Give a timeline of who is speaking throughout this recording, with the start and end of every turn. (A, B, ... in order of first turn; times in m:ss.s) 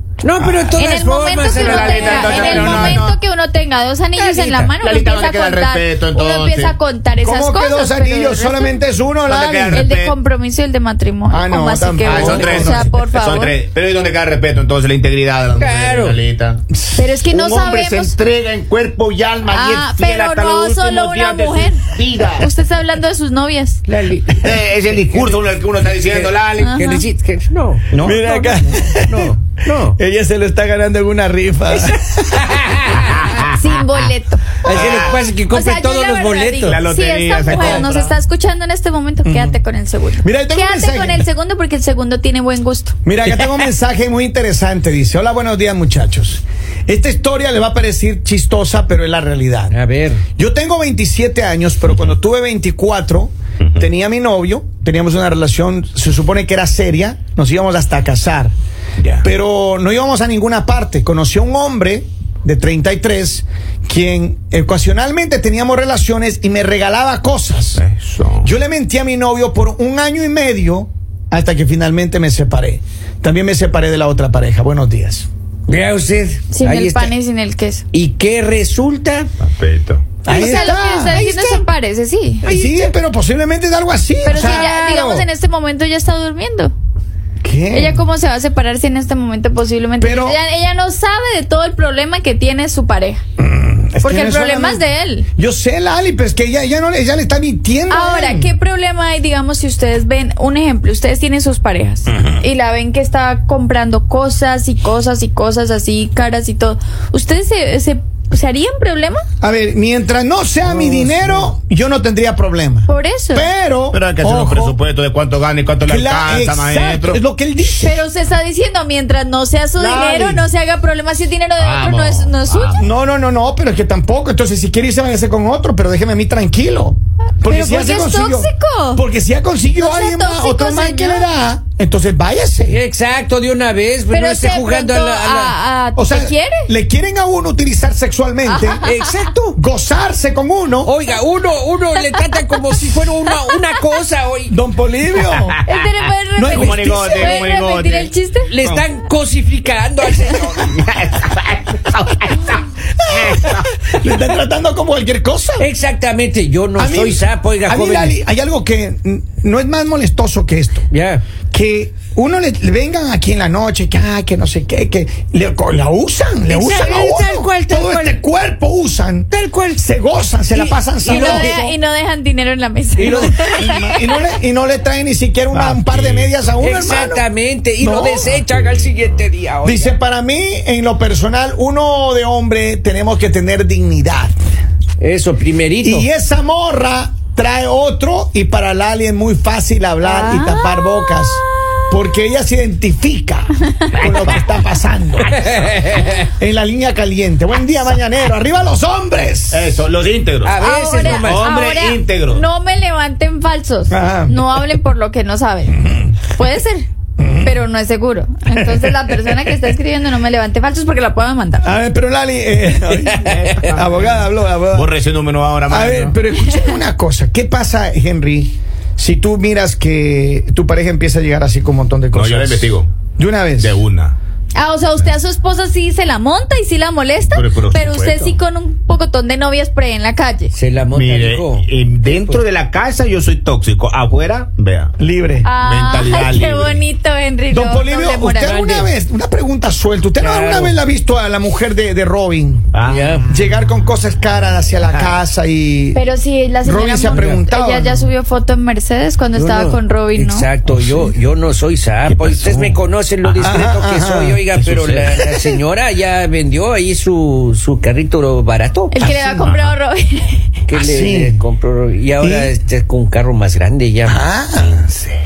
0:00.2-0:02.9 A
0:00.7-0:08.8 B
0:01.5-0:03.2 C
0:04.2-0:06.8 C
0:07.2-0:09.9 D
0:09.2-0:10.1 C
0:09.7-0:13.6 B
0:11.3-0:12.9 D
0:12.0-0:16.6 C
0:15.5-0:16.2 A
0:16.7-0:17.0 D
0:17.0-0:18.1 B
0:17.3-0:22.5 C
0:19.5-0:23.8 B
0:23.8-0:30.0 A
0:24.4-0:26.8 C
0:26.6-0:27.0 B
0:27.9-0:28.2 C
0:28.0-0:29.3 D
0:29.9-0:32.4 D
0:31.7-0:33.1 A
0:33.5-0:42.9 B
0:34.6-0:35.2 C
0:34.6-0:36.8 A
0:36.6-0:38.1 C
0:39.2-0:39.6 D
0:40.2-0:41.3 D
0:43.0-0:49.8 D
0:49.7-0:50.2 A
0:50.4-0:58.5 D
0:59.0-0:59.2 C
0:59.2-1:07.8 D
1:07.8-1:08.5 C
1:08.4-1:15.3 D
1:15.7-1:17.1 A
1:16.5-1:17.8 B
1:17.9-1:19.3 A
1:19.4-1:20.2 C
1:20.2-1:21.2 D
1:20.3-1:22.4 B
1:20.3-1:21.6 A
1:22.4-1:22.9 A
1:22.4-1:25.1 D
1:24.2-1:26.7 B
1:24.3-1:25.2 A
1:27.4-1:28.0 D
1:27.7-1:33.2 B
1:30.0-1:30.4 D
1:33.4-1:34.8 D
1:34.0-1:35.3 B
1:35.4-1:38.5 D
1:37.9-1:49.2 B
1:49.4-1:54.8 D
1:50.6-1:51.5 A
1:52.9-1:53.5 B
1:53.9-1:57.2 C
1:55.8-1:58.0 D
1:57.7-2:02.8 B
1:59.8-2:00.5 D
2:01.6-2:02.8 C
2:02.8-2:12.8 D
2:07.4-2:09.0 B
2:09.8-2:11.3 B
2:12.7-2:15.6 A
2:14.1-2:16.7 B
2:16.0-2:18.9 D
2:18.5-2:19.0 B
2:18.8-2:19.6 A
2:19.5-2:20.9 D
2:20.8-2:24.6 A
2:24.5-2:25.6 D
2:25.7-2:28.5 B
2:26.4-2:27.4 D
2:26.5-2:28.8 C
2:28.5-2:30.6 A
2:30.3-2:33.7 C
2:33.2-2:35.7 D
2:35.6-2:38.2 A
2:36.8-2:40.9 D
2:40.9-2:41.2 A
2:41.5-2:51.6 D
2:46.5-2:48.2 A
2:49.3-2:49.9 A
2:50.5-2:51.7 A
2:51.1-2:53.7 B
2:53.0-2:53.6 A
2:53.0-2:57.2 D
2:55.5-2:56.3 C
2:56.6-2:59.9 A
2:57.8-2:58.4 D
2:58.6-2:58.9 C
2:59.6-3:04.3 D
3:05.0-3:06.1 A
3:05.8-3:15.4 D
3:10.0-3:11.3 B
3:15.4-3:16.3 A
3:16.2-3:19.8 D
3:19.5-3:22.4 C
3:20.4-3:21.4 A
3:20.6-3:26.9 B
3:23.9-3:24.6 D
3:25.8-3:26.1 D
3:27.2-3:27.6 D
3:27.4-3:31.7 B
3:28.5-3:29.6 D
3:31.6-3:34.9 D
3:33.0-3:33.6 A
3:33.2-3:36.2 C
3:35.7-3:43.8 D
3:42.1-3:42.9 C
3:43.6-3:44.2 C
3:44.5-3:50.5 B
3:47.3-3:48.4 C
3:50.5-3:52.4 A
3:50.9-3:54.9 C
3:55.0-3:55.5 D
3:55.4-3:58.8 B
3:55.6-3:56.8 C
3:57.5-4:02.6 D
3:58.4-3:58.9 A
4:00.2-4:00.8 A
4:02.7-4:03.5 C
4:02.8-4:03.3 A
4:03.3-4:06.0 D
4:04.7-4:05.1 C
4:05.9-4:10.5 B
4:06.6-4:08.1 D
4:07.1-4:07.4 A
4:09.3-4:19.0 A
4:10.7-4:11.0 D
4:12.4-4:12.8 D
4:13.3-4:15.6 D
4:18.9-4:20.5 B
4:19.0-4:19.5 D
4:20.7-4:24.2 A
4:20.8-4:21.4 D
4:22.2-4:22.5 D
4:24.0-4:25.1 D